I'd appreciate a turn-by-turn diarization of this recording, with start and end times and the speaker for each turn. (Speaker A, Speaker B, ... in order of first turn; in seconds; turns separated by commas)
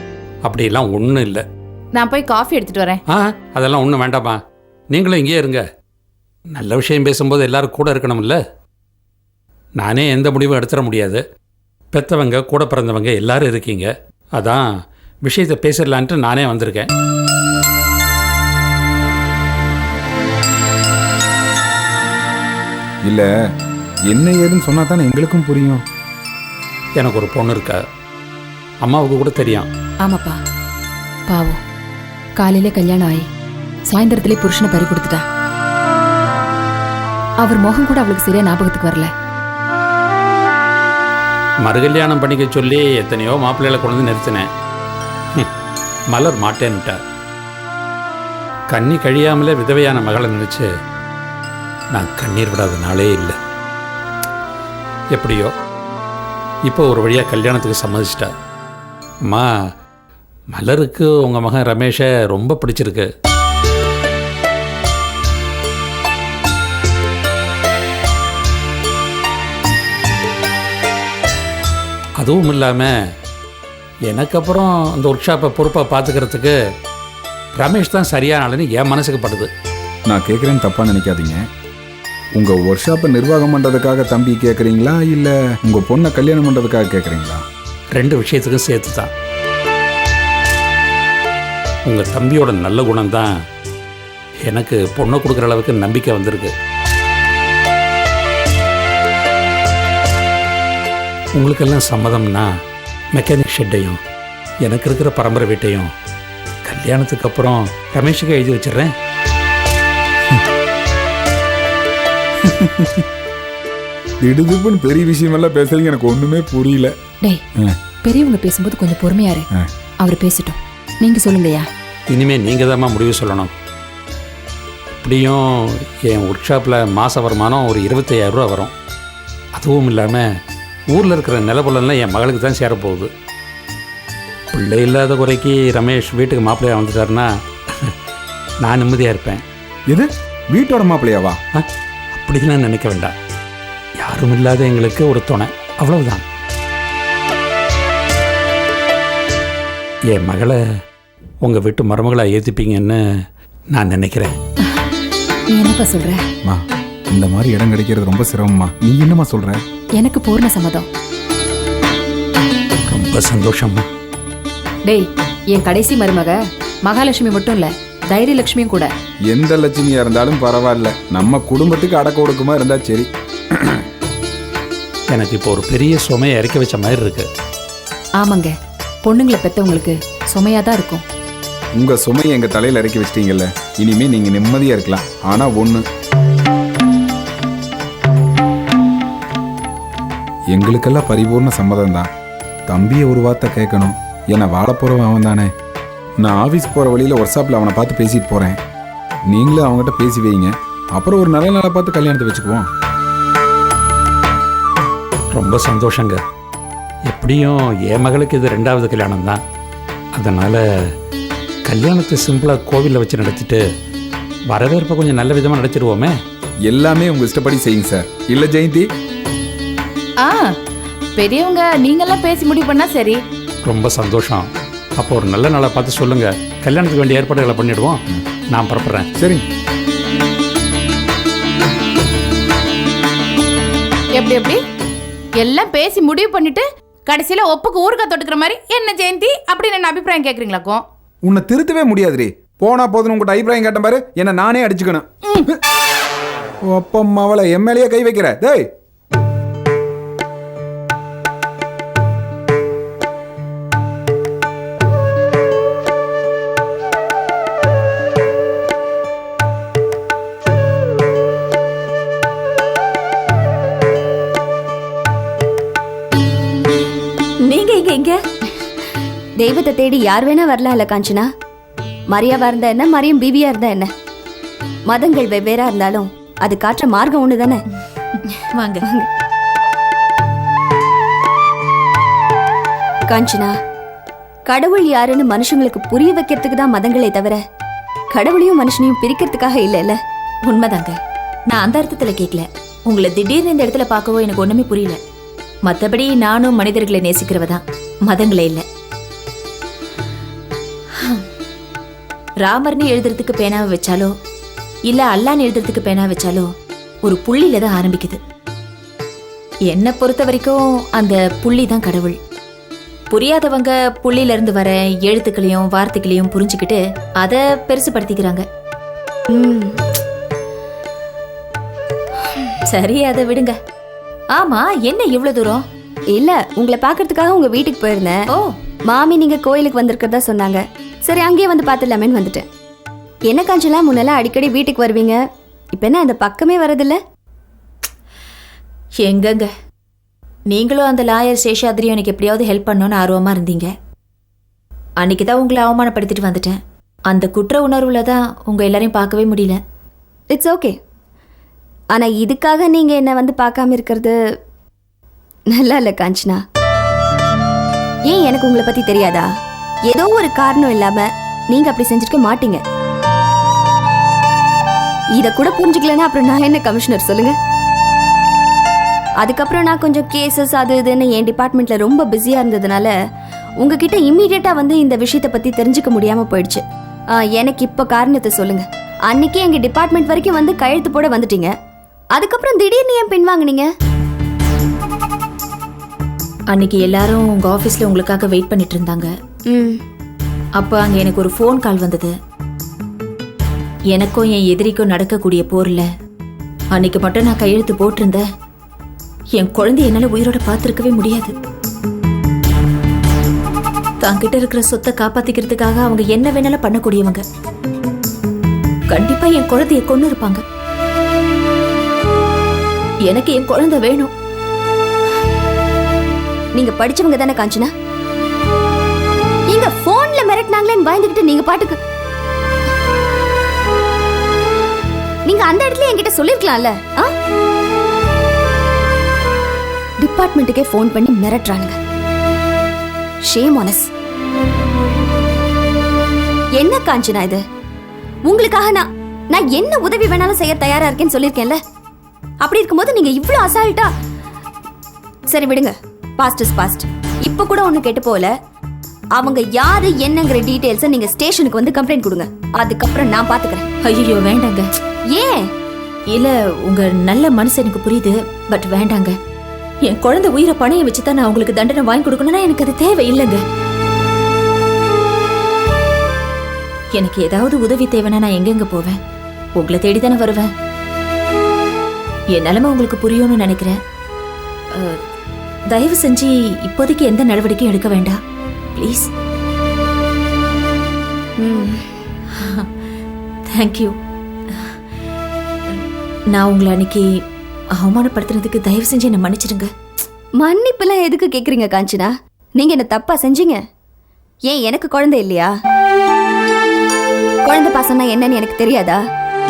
Speaker A: 0.4-1.4, Speaker B: 1.9-3.0, Speaker A: 3.1-5.6, Speaker A: 6.5-8.4, Speaker A: 9.8-11.2, Speaker A: 11.9-14.7, Speaker A: 15.2-16.9, Speaker C: 24.1-25.8, Speaker A: 27.0-27.8, Speaker A: 28.8-29.7, Speaker D: 30.0-30.4, Speaker D: 31.3-31.6, Speaker D: 32.4-33.3, Speaker D: 33.9-35.2, Speaker D: 37.4-39.1, Speaker A: 41.6-44.5, Speaker A: 46.1-47.0, Speaker A: 48.7-50.7, Speaker A: 51.9-53.4, Speaker A: 55.1-55.5, Speaker A: 56.7-58.3, Speaker A: 60.5-63.1, Speaker A: 72.2-72.9, Speaker A: 74.1-76.5, Speaker A: 77.5-79.5, Speaker C: 80.1-81.4, Speaker C: 82.4-87.4, Speaker A: 88.0-89.1, Speaker A: 91.9-93.3, Speaker A: 94.5-96.5, Speaker A: 101.4-102.5, Speaker A: 103.1-104.0, Speaker A: 104.7-105.9, Speaker A: 106.7-108.9, Speaker C: 112.5-113.0, Speaker C: 114.2-116.9, Speaker D: 118.0-119.5, Speaker D: 120.0-121.7, Speaker A: 122.1-123.5, Speaker A: 125.0-128.7, Speaker A: 129.6-130.3, Speaker A: 130.9-133.1, Speaker A: 134.5-137.9, Speaker A: 138.6-139.4, Speaker C: 139.9-141.4, Speaker A: 141.5-143.1, Speaker A: 144.0-146.2, Speaker A: 150.1-150.6, Speaker A: 151.4-153.0, Speaker A: 153.7-154.4, Speaker D: 155.5-156.2, Speaker C: 156.4-159.6, Speaker D: 160.0-160.9, Speaker A: 162.9-163.9, Speaker D: 164.9-168.9, Speaker C: 169.3-173.1, Speaker A: 175.1-177.3, Speaker D: 178.2-181.0, Speaker C: 181.8-185.8, Speaker C: 190.5-192.1, Speaker C: 192.7-195.5, Speaker C: 196.2-198.6, Speaker C: 199.3-202.7, Speaker A: 205.3-206.2, Speaker A: 207.1-209.4, Speaker A: 210.1-210.6, Speaker A: 211.7-213.6, Speaker A: 214.5-216.2, Speaker C: 216.7-218.9, Speaker B: 220.2-220.5, Speaker B: 221.2-223.2, Speaker A: 223.6-229.1, Speaker C: 229.2-229.4, Speaker B: 234.2-234.6, Speaker B: 235.4-240.8, Speaker C: 241.3-245.5, Speaker C: 246.7-248.7, Speaker E: 267.4-268.2, Speaker F: 269.4-271.3, Speaker F: 272.1-273.9, Speaker F: 274.9-277.6, Speaker E: 278.5-278.9, Speaker F: 283.1-283.5, Speaker F: 284.5-287.4, Speaker F: 288.1-290.0, Speaker E: 290.5-291.0, Speaker E: 291.5-295.0, Speaker E: 295.7-298.6, Speaker E: 302.4-304.1, Speaker E: 304.9-306.5, Speaker E: 307.1-308.2, Speaker E: 309.7-312.2, Speaker E: 313.1-318.4, Speaker F: 319.3-319.8, Speaker E: 322.7-323.6, Speaker E: 324.4-325.6, Speaker F: 326.1-328.2, Speaker F: 328.9-332.5, Speaker F: 333.3-335.2, Speaker F: 335.7-337.0, Speaker E: 339.0-339.5, Speaker E: 340.5-343.7, Speaker E: 345.0-346.6, Speaker E: 347.1-349.6, Speaker F: 350.3-350.8, Speaker F: 351.9-354.2, Speaker F: 355.5-356.4, Speaker F: 358.1-359.3, Speaker F: 359.9-362.6, Speaker F: 365.2-367.4, Speaker F: 369.2-372.9, Speaker F: 373.6-376.6, Speaker F: 377.1-381.5, Speaker F: 382.1-383.7, Speaker E: 386.5-389.1, Speaker F: 389.5-389.8, Speaker E: 390.6-392.1, Speaker E: 393.9-395.9, Speaker E: 396.7-398.2, Speaker E: 399.4-401.4, Speaker E: 404.0-407.2, Speaker E: 408.9-410.4, Speaker E: 413.1-414.1, Speaker F: 416.6-417.7, Speaker F: 419.5-421.8, Speaker F: 425.3-427.1, Speaker F: 430.0-431.8, Speaker F: 433.3-433.9, Speaker F: 436.6-437.4, Speaker F: 438.3-441.6, Speaker F: 442.4-443.9, Speaker F: 445.3-448.3, Speaker F: 449.2-453.7, Speaker E: 453.8-454.6, Speaker F: 455.1-455.5, Speaker E: 456.1-459.1, Speaker E: 459.9-463.4, Speaker E: 466.9-469.0, Speaker E: 469.6-470.5, Speaker E: 472.4-473.8, Speaker E: 475.7-478.2, Speaker E: 478.8-479.1, Speaker F: 481.4-481.8, Speaker E: 483.5-483.9, Speaker E: 486.4-487.1, Speaker E: 487.8-489.7, Speaker F: 490.4-493.6, Speaker F: 494.5-495.5, Speaker F: 497.4-499.0